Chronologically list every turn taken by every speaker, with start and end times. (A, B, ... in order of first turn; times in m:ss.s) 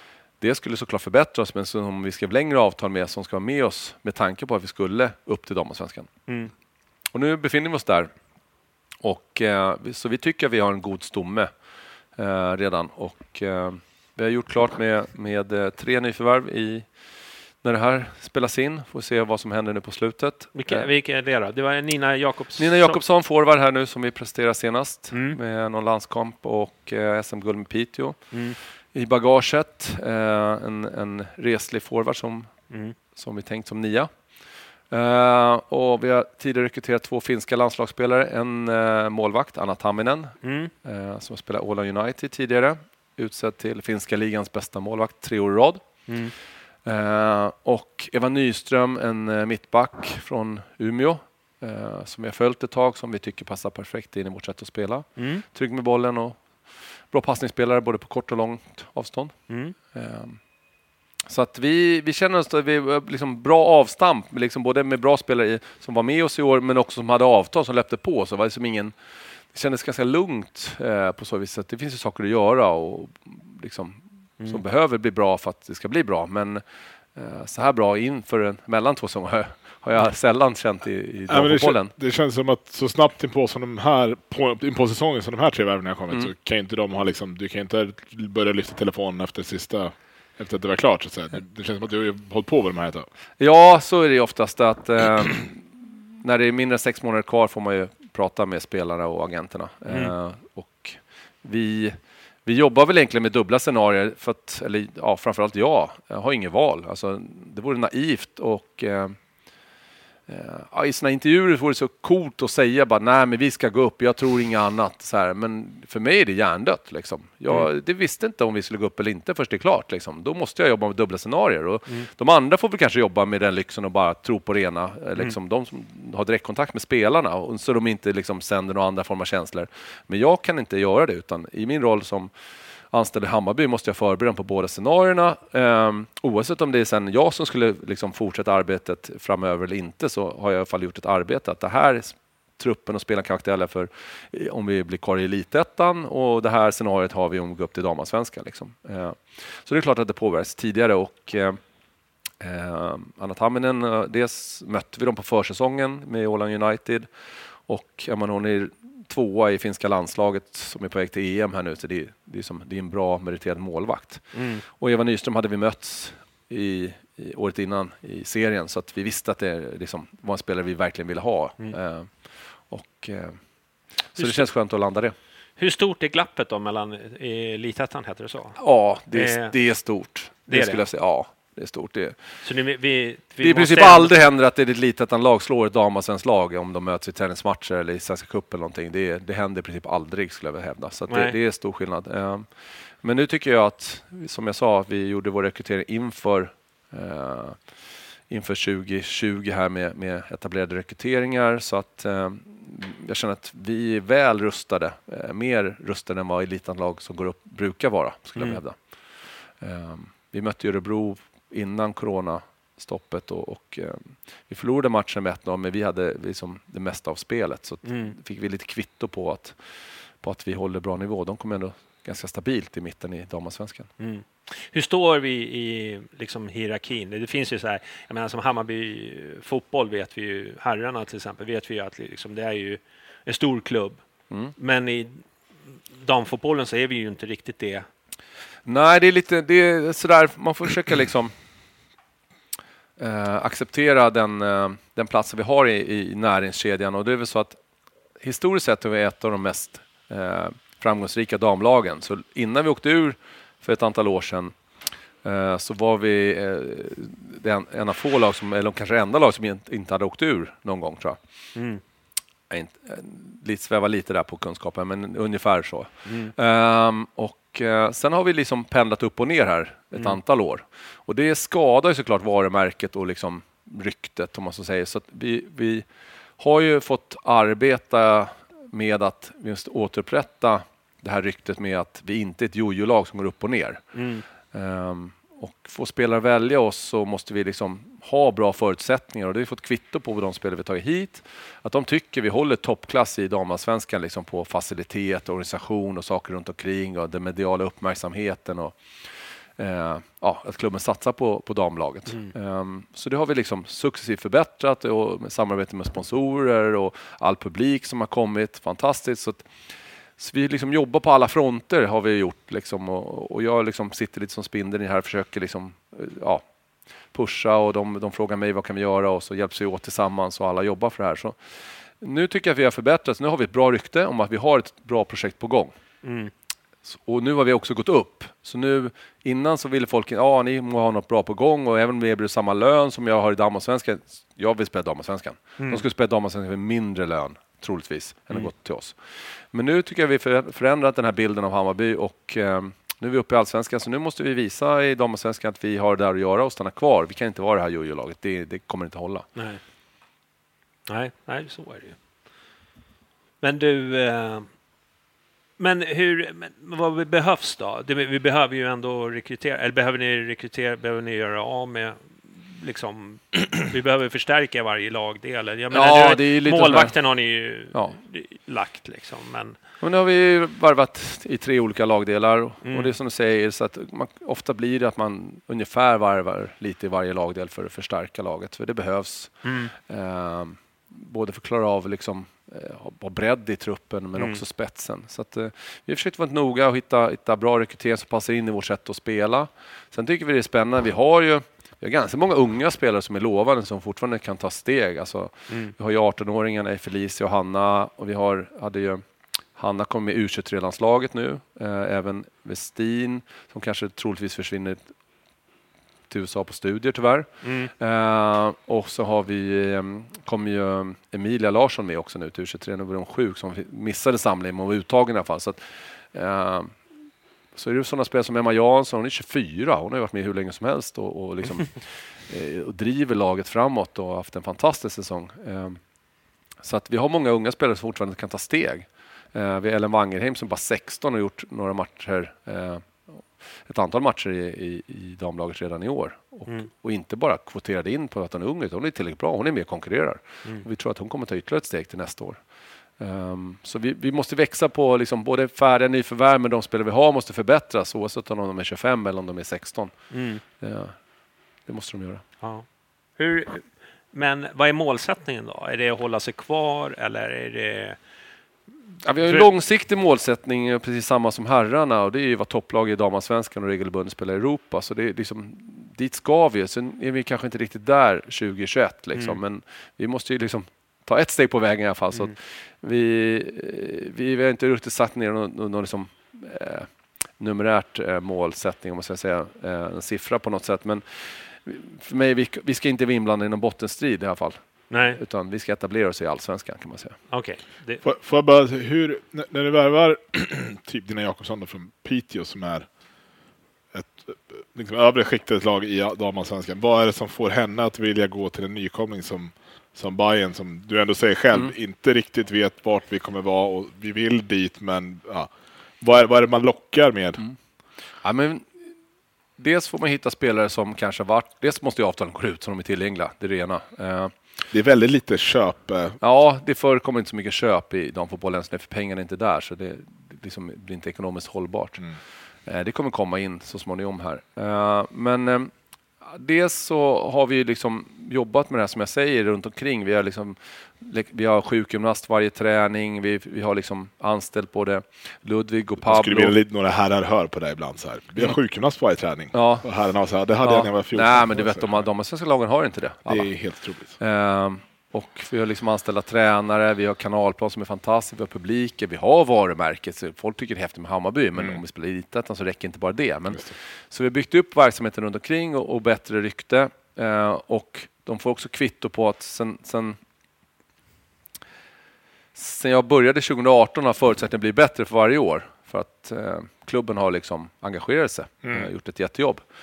0:00.4-0:06.1 A
0:06.3-0:06.5 B
0:07.1-0:08.1 A
0:09.0-0:11.5 A
0:12.1-0:16.9 A
0:17.6-0:20.9 A
0:20.5-0:23.0 B
0:22.6-0:28.2 A
0:25.1-0:25.4 B
0:28.3-0:28.6 B
0:28.9-0:32.5 A
0:32.7-0:33.0 B
0:33.1-0:34.1 A
0:34.9-0:45.8 A
0:40.4-0:40.7 B
0:46.1-0:46.3 B
0:46.8-0:56.4 A
0:55.2-0:55.4 B
0:57.1-1:00.4 A
0:59.5-0:59.7 B
1:01.2-1:09.0 A
1:09.5-1:21.9 A
1:21.3-1:33.1 C
1:33.4-1:49.2 A
1:39.9-1:40.1 B
1:50.3-2:12.3 A
2:12.9-2:31.6 A
2:32.4-2:37.1 A
2:37.6-2:53.4 A
2:44.3-2:44.6 B
2:54.1-2:55.1 A
2:54.2-2:54.5 B
2:55.6-2:58.6 B
2:58.6-3:02.2 A
2:59.1-2:59.5 B
3:00.5-3:00.8 B
3:02.4-3:04.2 B
3:03.4-3:12.5 A
3:11.1-3:11.4 B
3:13.0-3:17.6 A
3:18.3-3:28.8 A
3:28.4-3:28.6 B
3:29.6-3:39.6 A
3:37.8-3:38.2 B
3:40.2-3:43.9 A
3:44.0-3:54.0 B
3:54.6-3:55.2 B
3:55.9-3:57.9 B
3:58.6-4:01.3 A
4:03.0-4:07.6 A
4:08.2-4:14.5 A
4:15.2-4:21.2 A
4:21.5-4:21.8 B
4:22.5-4:35.9 A
4:26.0-4:26.3 B
4:29.9-4:30.2 B
4:36.4-4:43.8 A
4:43.9-4:44.2 B
4:44.5-4:58.8 A
4:59.6-5:09.5 A
5:02.1-5:02.3 B
5:10.2-5:16.4 A
5:17.1-5:21.4 A
5:22.0-5:25.7 A
5:26.0-5:26.3 B
5:26.9-5:39.0 A
5:35.6-5:35.8 B
5:39.5-5:49.2 A
5:49.4-5:49.6 B
5:50.9-5:52.0 B
5:53.4-5:54.5 B
5:55.6-6:09.6 B
6:05.7-6:07.0 A
6:09.8-6:39.0 A
6:12.6-6:12.9 B
6:19.4-6:19.7 B
6:24.2-6:24.4 B
6:35.5-6:35.7 B
6:39.6-6:44.9 A
6:46.1-6:56.8 A
6:47.4-6:47.7 B
6:57.5-7:05.8 A
7:06.6-7:22.4 A
7:23.0-7:29.9 A
7:30.1-7:30.4 B
7:30.6-7:31.0 A
7:31.6-7:32.2 A
7:33.2-7:38.0 B
7:39.0-8:07.2 A
7:39.2-7:39.5 B
8:04.9-8:05.2 B
8:07.3-8:08.0 B
8:08.0-8:12.9 C
8:13.9-8:25.5 C
8:26.0-8:27.4 C
8:28.2-8:28.7 A
8:29.6-8:34.3 A
8:34.7-8:36.2 C
8:36.2-8:42.0 A
8:42.6-8:56.6 A
8:56.0-9:02.0 C
8:59.5-8:59.8 A
9:00.6-9:03.5 A
9:03.2-9:04.2 C
9:04.2-9:20.2 A
9:22.5-9:29.6 A
9:28.6-9:28.9 C